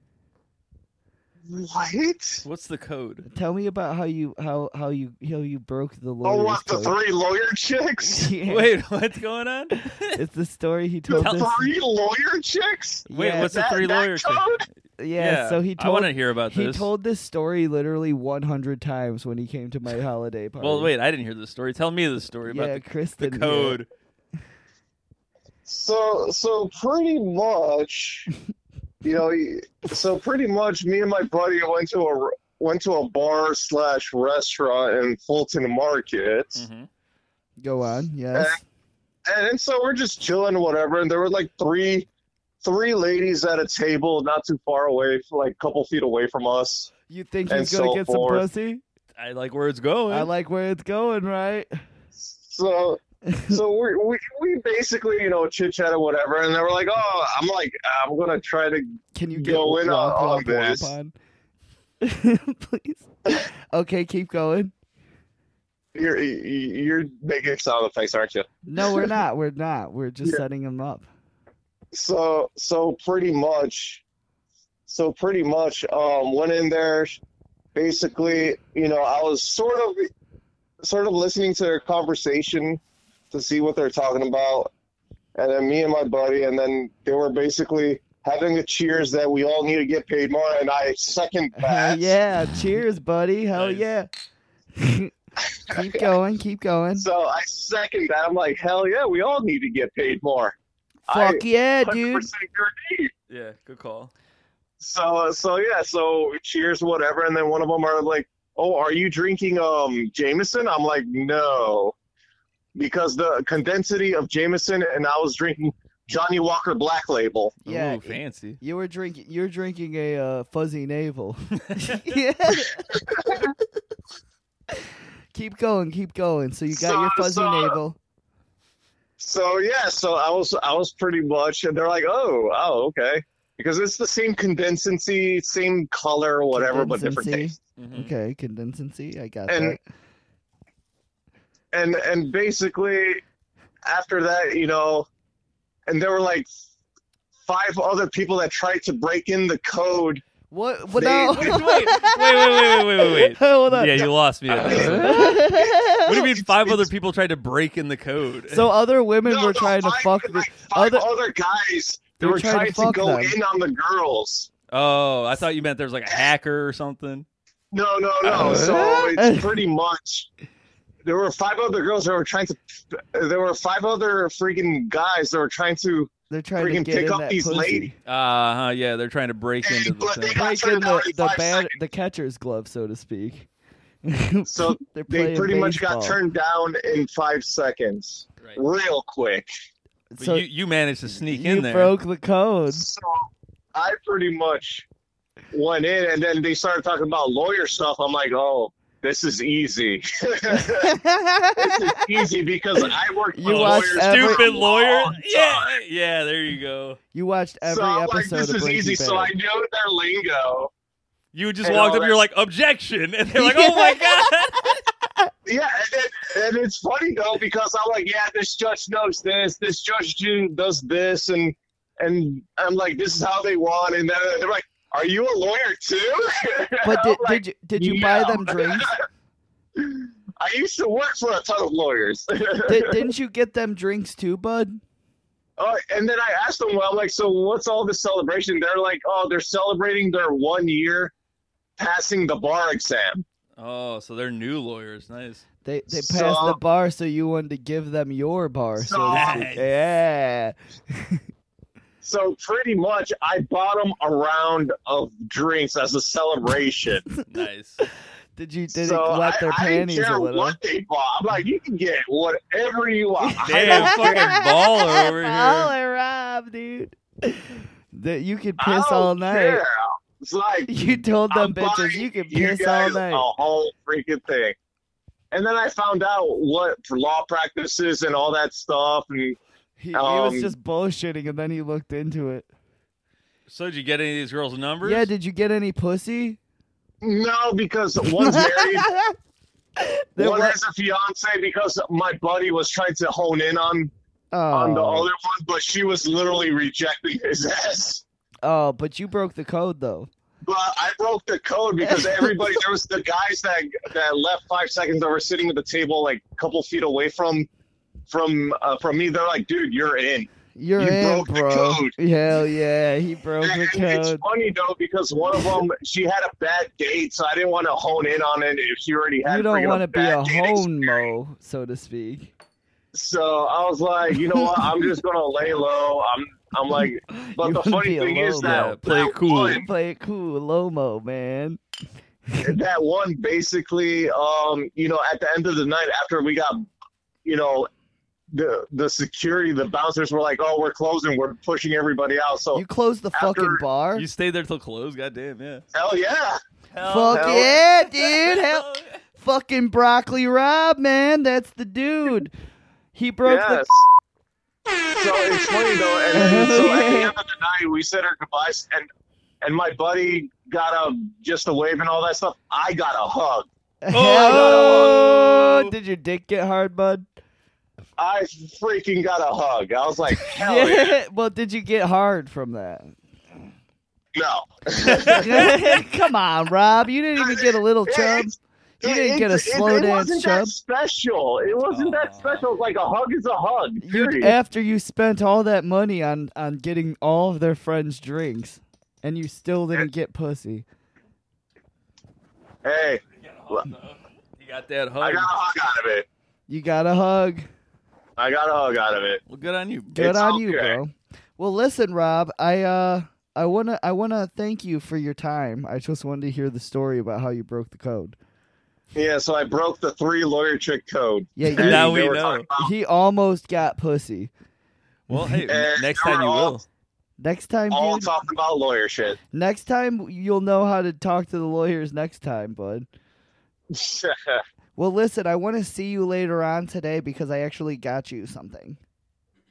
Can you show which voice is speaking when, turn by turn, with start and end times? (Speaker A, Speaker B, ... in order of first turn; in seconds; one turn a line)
Speaker A: 1.5-2.5
Speaker B: 2.4-3.3
Speaker C: 3.2-7.0
Speaker A: 6.2-8.3
Speaker C: 8.0-8.7
Speaker B: 8.5-10.2
Speaker C: 10.1-11.7
Speaker A: 11.1-14.7
Speaker B: 11.2-11.5
Speaker C: 13.1-13.6
Speaker B: 13.1-14.5
Speaker C: 15.0-20.9
Speaker B: 15.2-16.9
Speaker B: 20.6-23.9
Speaker C: 22.5-23.8
Speaker A: 25.7-28.3
Speaker A: 29.0-36.6
Speaker B: 36.5-36.9
Speaker C: 37.6-38.6
Speaker A: 39.3-42.1
Speaker A: 42.6-46.9
Speaker C: 47.1-48.8
Speaker A: 47.5-48.5
Speaker B: 49.2-50.3
Speaker C: 50.1-51.7
Speaker A: 52.2-60.9
Speaker C: 53.3-53.6
Speaker C: 59.1-61.1
Speaker C: 62.0-64.7
Speaker A: 66.0-69.1
Speaker C: 68.7-71.1
Speaker A: 71.9-74.0
Speaker A: 74.9-77.2
Speaker A: 77.8-80.1
Speaker A: 80.8-82.8
Speaker A: 83.3-84.7
Speaker A: 85.4-92.2
Speaker C: 91.5-94.1
Speaker B: 93.5-93.9
Speaker C: 94.8-95.1
Speaker A: 95.5-96.1
Speaker C: 95.7-97.1
Speaker A: 97.0-100.5
Speaker C: 101.1-102.3
Speaker A: 101.1-103.1
Speaker B: 103.3-104.1
Speaker A: 104.8-111.9
Speaker A: 112.8-117.5
Speaker B: 117.7-118.6
Speaker C: 117.7-123.5
Speaker B: 121.8-122.1
Speaker A: 122.9-123.5
Speaker C: 125.3-128.0
Speaker A: 126.7-127.8
Speaker A: 129.2-137.6
Speaker C: 136.5-139.8
Speaker B: 137.8-138.1
Speaker A: 139.5-139.8
Speaker A: 141.7-143.2
Speaker A: 143.9-145.1
Speaker A: 145.9-146.5
Speaker A: 147.5-150.2
Speaker C: 150.5-154.1
Speaker A: 150.9-151.9
Speaker B: 151.3-155.4
Speaker A: 154.5-156.8
Speaker C: 154.8-156.1
Speaker B: 155.9-158.7
Speaker C: 158.5-161.1
Speaker A: 159.2-164.5
Speaker C: 162.2-163.4
Speaker B: 164.7-167.3
Speaker A: 167.7-170.3
Speaker C: 169.1-169.6
Speaker A: 171.0-177.9
Speaker C: 176.3-178.0
Speaker B: 178.1-180.4
Speaker A: 179.6-181.8
Speaker C: 180.4-183.5
Speaker C: 184.0-186.2
Speaker A: 184.5-189.5
Speaker C: 190.1-190.4
Speaker B: 190.2-191.9
Speaker C: 191.1-192.9
Speaker A: 192.7-194.9
Speaker A: 195.5-201.0
Speaker C: 200.7-202.1
Speaker A: 201.6-205.8
Speaker C: 203.3-204.7
Speaker B: 203.4-207.0
Speaker C: 207.1-209.3
Speaker A: 207.6-210.7
Speaker B: 211.3-214.8
Speaker A: 211.6-212.2
Speaker C: 213.3-214.8
Speaker A: 215.5-229.1
Speaker C: 226.8-228.9
Speaker A: 229.8-233.1
Speaker C: 232.7-234.8
Speaker A: 235.6-241.1
Speaker A: 241.8-243.2
Speaker B: 243.6-245.4
Speaker C: 245.7-251.2
Speaker A: 245.9-246.6
Speaker A: 248.8-249.5
Speaker B: 249.1-249.7
Speaker A: 252.0-257.0
Speaker B: 257.3-257.8
Speaker C: 257.8-260.6
Speaker A: 258.7-264.4
Speaker C: 263.2-269.6
Speaker B: 263.4-265.7
Speaker A: 268.6-274.6
Speaker C: 270.7-273.3
Speaker A: 275.3-279.4
Speaker C: 279.8-282.5
Speaker A: 279.9-280.5
Speaker B: 283.5-285.1
Speaker C: 284.8-286.4
Speaker A: 287.0-288.9
Speaker C: 288.0-289.1
Speaker C: 289.8-290.6
Speaker A: 290.2-293.9
Speaker C: 294.3-295.1
Speaker A: 294.5-298.0
Speaker C: 298.4-300.1
Speaker A: 300.5-307.5
Speaker C: 301.8-302.6
Speaker A: 308.1-311.9
Speaker C: 310.6-314.2
Speaker A: 313.4-321.1
Speaker C: 319.2-322.3
Speaker A: 322.9-329.6
Speaker C: 324.2-324.9
Speaker C: 327.1-328.8
Speaker B: 328.4-329.6
Speaker C: 329.4-331.6
Speaker A: 332.4-336.7
Speaker A: 337.2-337.7
Speaker A: 338.3-342.6
Speaker C: 342.5-344.1
Speaker A: 343.1-343.6
Speaker B: 343.9-345.6
Speaker A: 345.7-346.4
Speaker B: 346.7-349.0
Speaker C: 346.9-352.3
Speaker A: 347.1-347.5
Speaker C: 352.9-353.6
Speaker A: 353.2-353.9
Speaker A: 354.9-358.9
Speaker C: 356.1-357.1
Speaker A: 359.4-363.5
Speaker C: 363.8-367.1
Speaker B: 363.9-365.7
Speaker A: 364.2-365.0
Speaker A: 368.0-371.0
Speaker C: 370.4-372.9
Speaker A: 374.1-375.5
Speaker B: 374.8-375.8
Speaker C: 375.1-380.5
Speaker A: 377.2-384.4
Speaker B: 381.7-382.5
Speaker C: 383.8-390.6
Speaker A: 392.6-393.7
Speaker B: 393.2-395.3
Speaker A: 395.0-396.1
Speaker C: 396.5-397.5
Speaker A: 398.2-399.2
Speaker B: 399.3-400.0
Speaker C: 399.9-408.2
Speaker A: 400.0-400.8
Speaker A: 408.9-412.7
Speaker C: 411.4-414.3
Speaker B: 411.5-412.5
Speaker B: 415.1-416.6
Speaker C: 415.1-415.4
Speaker A: 415.5-416.6
Speaker C: 417.2-418.1
Speaker A: 417.7-419.2
Speaker C: 419.3-422.9
Speaker A: 423.7-424.4
Speaker C: 424.8-428.8